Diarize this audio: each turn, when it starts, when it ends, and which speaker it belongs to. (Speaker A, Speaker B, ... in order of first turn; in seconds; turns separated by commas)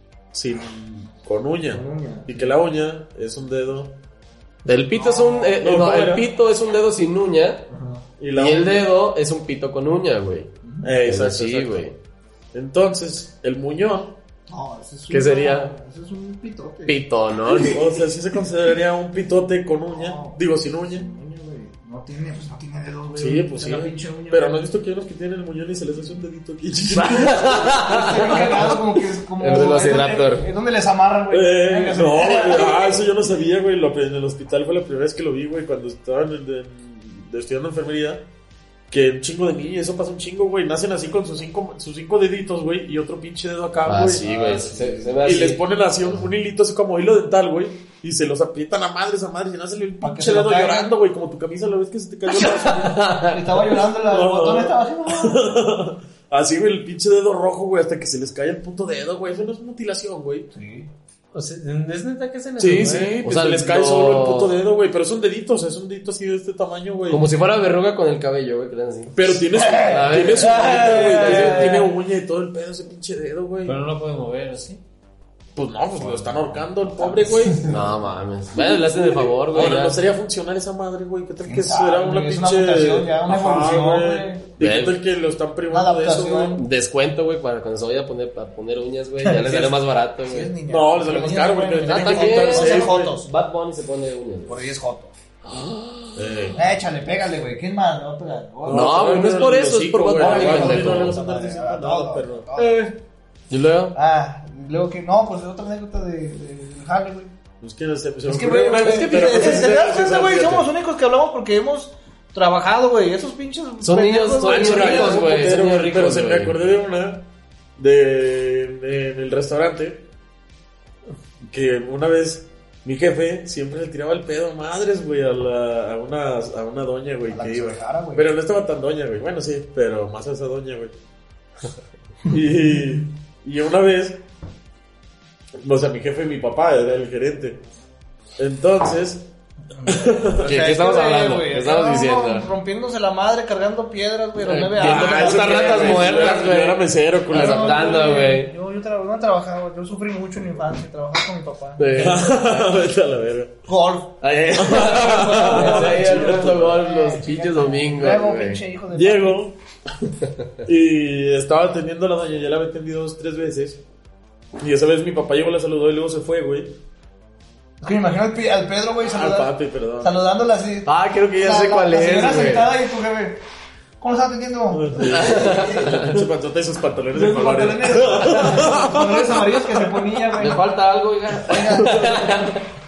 Speaker A: 0.3-3.9, Speaker B: 1.7-2.5, Speaker C: 4.7-7.7, Speaker B: 4.9-5.6, Speaker A: 5.6-6.3, Speaker B: 7.7-8.1, Speaker A: 8.2-8.9, Speaker C: 8.3-10.5, Speaker B: 10.7-10.9, Speaker A: 10.8-11.9, Speaker C: 11.0-12.0, Speaker A: 12.5-14.2, Speaker B: 14.5-17.0, Speaker C: 15.1-15.7, Speaker C: 16.9-17.9, Speaker A: 17.6-21.1, Speaker B: 19.9-24.6, Speaker A: 23.1-28.8, Speaker C: 27.0-28.6, Speaker B: 27.8-33.0, Speaker C: 29.4-30.5, Speaker A: 31.3-38.2, Speaker A: 38.9-44.3, Speaker C: 43.9-46.3, Speaker D: 44.2-45.5, Speaker A: 45.1-53.0, Speaker B: 50.0-51.0, Speaker B: 52.3-55.6, Speaker C: 52.8-53.7, Speaker A: 53.8-60.5, Speaker B: 60.5-60.9, Speaker D: 61.3-63.2, Speaker A: 62.6-67.3, Speaker C: 63.2-64.6, Speaker C: 67.1-71.9, Speaker A: 69.1-73.8, Speaker B: 69.6-71.9, Speaker D: 73.7-74.8, Speaker A: 75.6-77.8, Speaker C: 77.6-80.0, Speaker A: 79.5-86.6, Speaker B: 81.5-84.5, Speaker C: 84.6-85.0, Speaker B: 85.7-86.7, Speaker C: 86.5-90.5, Speaker B: 89.2-93.3, Speaker A: 90.7-93.2, Speaker C: 91.9-94.6, Speaker B: 94.5-95.1, Speaker C: 95.5-96.5, Speaker A: 96.2-96.6, Speaker B: 96.6-99.5, Speaker A: 98.6-102.6, Speaker C: 98.7-101.2, Speaker B: 100.2-103.0, Speaker C: 103.5-104.0, Speaker B: 103.9-107.3, Speaker A: 107.6-110.7, Speaker B: 108.3-115.3, Speaker C: 113.8-116.7, Speaker A: 114.4-117.3, Speaker A: 117.8-120.1, Speaker A: 121.4-130.9, Speaker B: 127.3-128.3, Speaker A: 132.2-134.2, Speaker A: 135.6-137.6, Speaker A: 138.4-139.3, Speaker B: 139.7-146.4, Speaker A: 139.9-140.6, Speaker C: 140.4-142.5, Speaker C: 144.4-148.5, Speaker A: 144.8-148.1, Speaker B: 147.3-152.3, Speaker C: 151.8-152.8, Speaker A: 151.9-153.6, Speaker B: 153.7-159.4, Speaker C: 154.2-158.6, Speaker A: 154.5-156.8, Speaker A: 158.9-160.1, Speaker A: 160.6-163.8, Speaker A: 164.6-166.8, Speaker B: 167.8-173.4, Speaker A: 169.1-170.1, Speaker C: 170.9-172.7, Speaker B: 174.0-175.9, Speaker A: 174.7-180.2, Speaker C: 175.1-176.2, Speaker B: 177.1-180.8, Speaker C: 180.3-182.6, Speaker B: 181.3-182.7